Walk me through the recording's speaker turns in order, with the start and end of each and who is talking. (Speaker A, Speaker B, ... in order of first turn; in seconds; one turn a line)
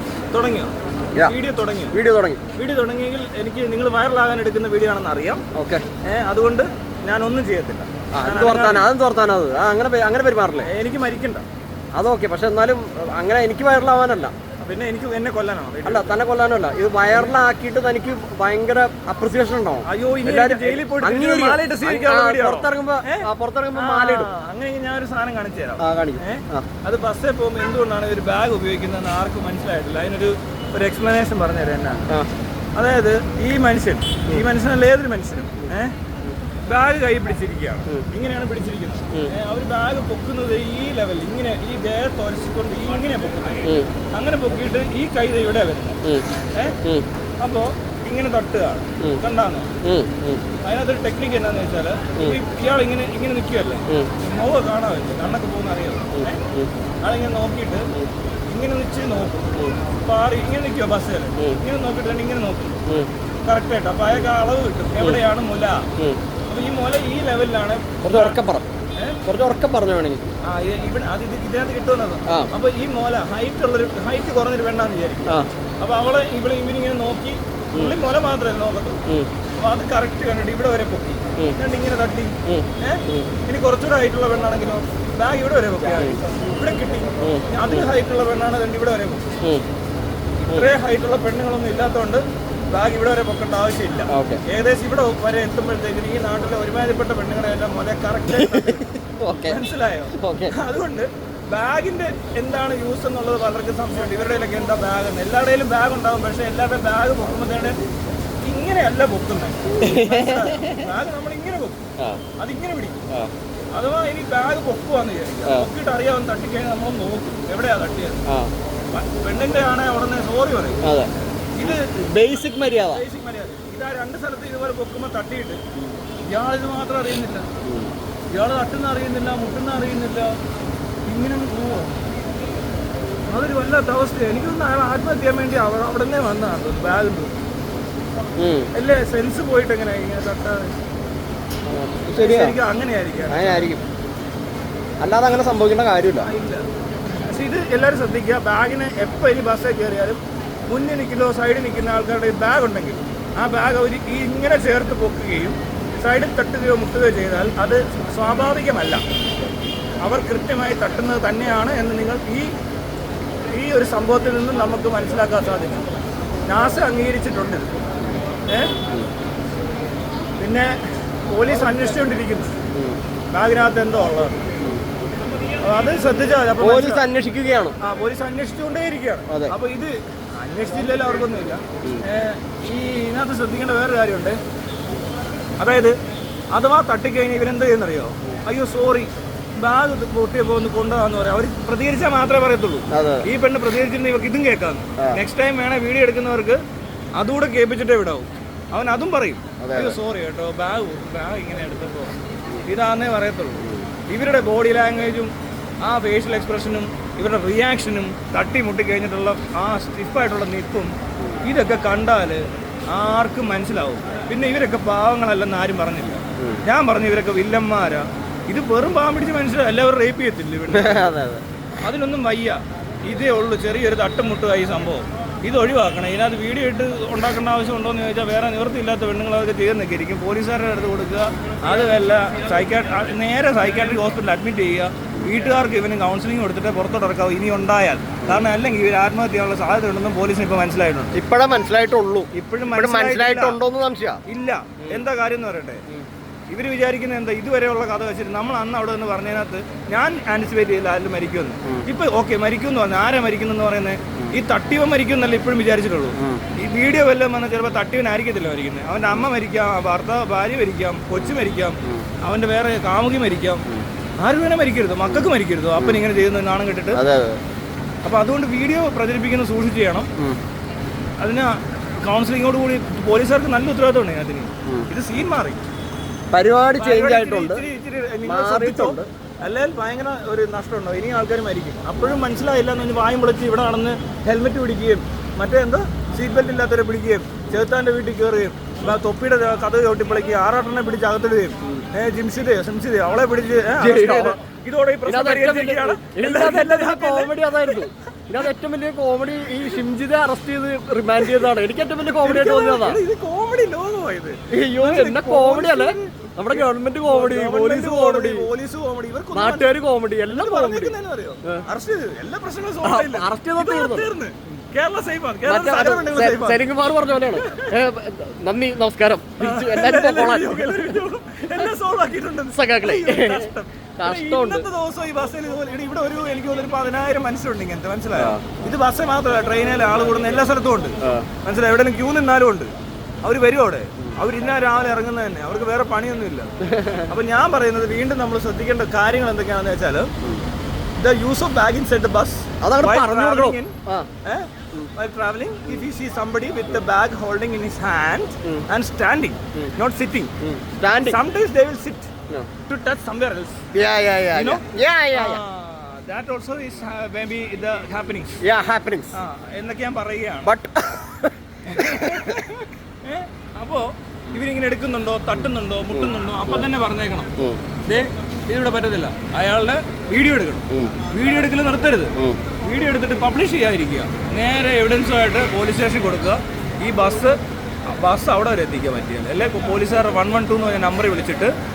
Speaker A: 0.3-1.9
Speaker B: 1.9-2.4
Speaker A: 2.6-5.4
Speaker B: 5.5-5.9
Speaker A: 6.0-8.9
Speaker B: 8.1-10.7
Speaker A: 10.7-11.4
Speaker B: 11.9-14.3
Speaker A: 14.6-16.1
Speaker B: 15.8-24.3
Speaker A: 19.9-32.0
Speaker B: 25.8-26.7
Speaker A: 32.8-36.0
Speaker A: 36.7-46.0
Speaker B: 43.6-43.9
Speaker A: 47.4-49.7
Speaker B: 49.8-50.5
Speaker A: 50.6-56.4
Speaker B: 56.1-56.7
Speaker A: 57.0-57.9
Speaker A: 58.5-62.8
Speaker A: 63.4-65.9
Speaker A: 66.5-68.4
Speaker B: 68.0-68.7
Speaker B: 69.2-70.2
Speaker A: 70.4-79.0
Speaker A: 79.6-89.3
Speaker B: 82.5-83.3
Speaker B: 87.2-87.9
Speaker A: 90.5-98.9
Speaker B: 94.1-94.4
Speaker B: 98.3-99.6
Speaker A: 99.5-107.8
Speaker B: 100.2-100.5
Speaker A: 108.4-111.8
Speaker B: 109.8-110.9
Speaker A: 112.4-113.0
Speaker A: 113.7-118.2
Speaker B: 118.3-118.5
Speaker A: 118.9-120.8
Speaker B: 120.8-121.1
Speaker A: 121.6-122.4
Speaker B: 121.6-123.0
Speaker A: 122.9-125.6
Speaker A: 126.3-127.5
Speaker B: 127.6-127.9
Speaker A: 128.3-130.3
Speaker A: 131.1-132.1
Speaker A: 133.3-137.3
Speaker B: 138.4-138.7
Speaker A: 138.8-140.8
Speaker B: 141.7-142.6
Speaker A: 142.2-143.7
Speaker B: 143.3-143.8
Speaker B: 145.0-146.3
Speaker A: 146.2-146.7
Speaker A: 147.2-159.0
Speaker A: 160.0-162.5
Speaker A: 163.5-165.8
Speaker A: 166.5-167.7
Speaker A: 168.5-168.7
Speaker A: 170.4-170.7
Speaker A: 171.3-172.5
Speaker B: 172.7-173.0
Speaker A: 173.3-174.4
Speaker B: 174.6-174.9
Speaker A: 175.6-177.1
Speaker B: 176.6-177.8
Speaker A: 177.8-184.4
Speaker B: 179.3-179.6
Speaker A: 185.6-186.0
Speaker A: 186.5-196.6
Speaker B: 192.9-193.3
Speaker A: 197.2-202.2
Speaker B: 199.6-200.0
Speaker A: 202.7-221.1
Speaker B: 220.7-221.4
Speaker A: 221.8-241.2
Speaker B: 241.1-244.2
Speaker A: 242.3-243.6
Speaker A: 244.3-245.8
Speaker A: 246.5-263.6
Speaker B: 256.2-256.4
Speaker B: 261.1-262.1
Speaker A: 264.2-267.0
Speaker B: 265.1-266.0
Speaker B: 266.9-267.4
Speaker A: 268.0-270.1
Speaker A: 271.2-275.6
Speaker B: 276.3-277.6
Speaker A: 276.8-297.9
Speaker B: 278.2-279.1
Speaker B: 293.8-294.4
Speaker B: 295.1-303.0
Speaker A: 302.2-316.7
Speaker B: 304.5-308.5
Speaker B: 309.3-311.6
Speaker B: 312.8-314.1
Speaker B: 315.5-321.7
Speaker A: 317.3-317.8
Speaker A: 319.4-332.7
Speaker B: 322.5-324.7
Speaker B: 328.1-328.5
Speaker B: 331.0-331.3
Speaker A: 333.2-336.5
Speaker B: 336.6-337.1
Speaker A: 337.1-340.1
Speaker A: 341.0-350.3
Speaker B: 342.6-344.1
Speaker B: 350.4-351.2
Speaker A: 351.0-352.1
Speaker A: 352.7-353.6
Speaker B: 353.7-355.4
Speaker A: 354.3-358.4
Speaker B: 358.4-359.1
Speaker A: 359.1-360.5
Speaker B: 360.4-362.4
Speaker A: 361.7-367.3
Speaker B: 365.9-366.6
Speaker A: 367.9-377.4
Speaker B: 370.7-371.0
Speaker A: 377.9-381.5